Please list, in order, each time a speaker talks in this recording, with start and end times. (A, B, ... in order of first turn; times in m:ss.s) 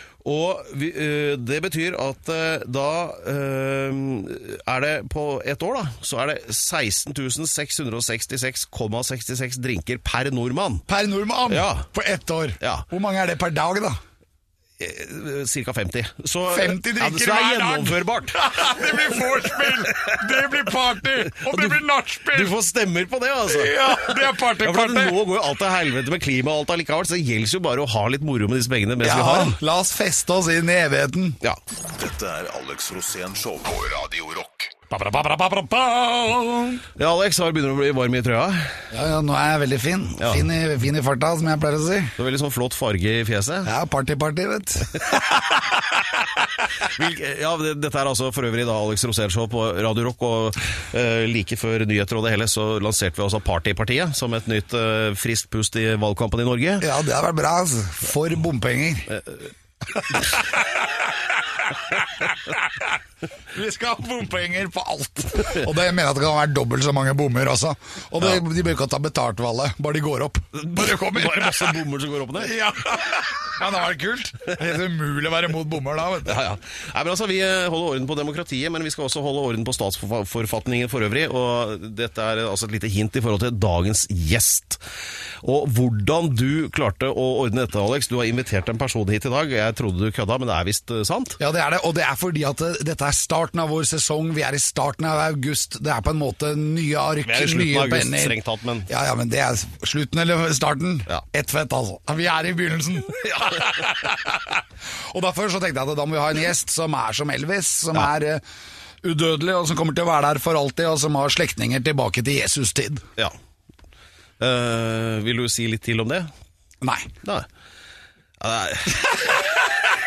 0:00.2-0:10.8 A
0:10.9-0:14.0 B
0:11.5-0:11.9 A
0:14.8-0:20.5 A
0:16.5-0:22.6 B
0:21.3-0:29.6 A
0:23.5-0:25.2 B
0:29.0-0:31.4 B
0:31.9-0:34.8 C
0:34.9-0:36.8 B
0:37.0-0:38.8 A
0:38.9-0:42.2 B
0:40.2-0:40.5 A
0:42.2-0:43.7 A
0:43.6-0:45.5 B
0:46.8-0:56.9 A
0:56.8-0:59.2 B
0:59.9-1:03.0 B
1:03.5-1:11.8 B
1:10.7-1:12.5 A
1:12.4-1:16.4 B
1:16.2-1:24.8 A
1:25.4-1:31.4 A
1:31.4-1:48.4 B
1:37.2-1:38.9 A
1:43.3-1:43.7 A
1:49.0-1:53.1 B
1:54.4-1:56.3 A
1:56.8-1:57.1 B
1:58.4-1:59.6 A
1:59.3-1:59.7 B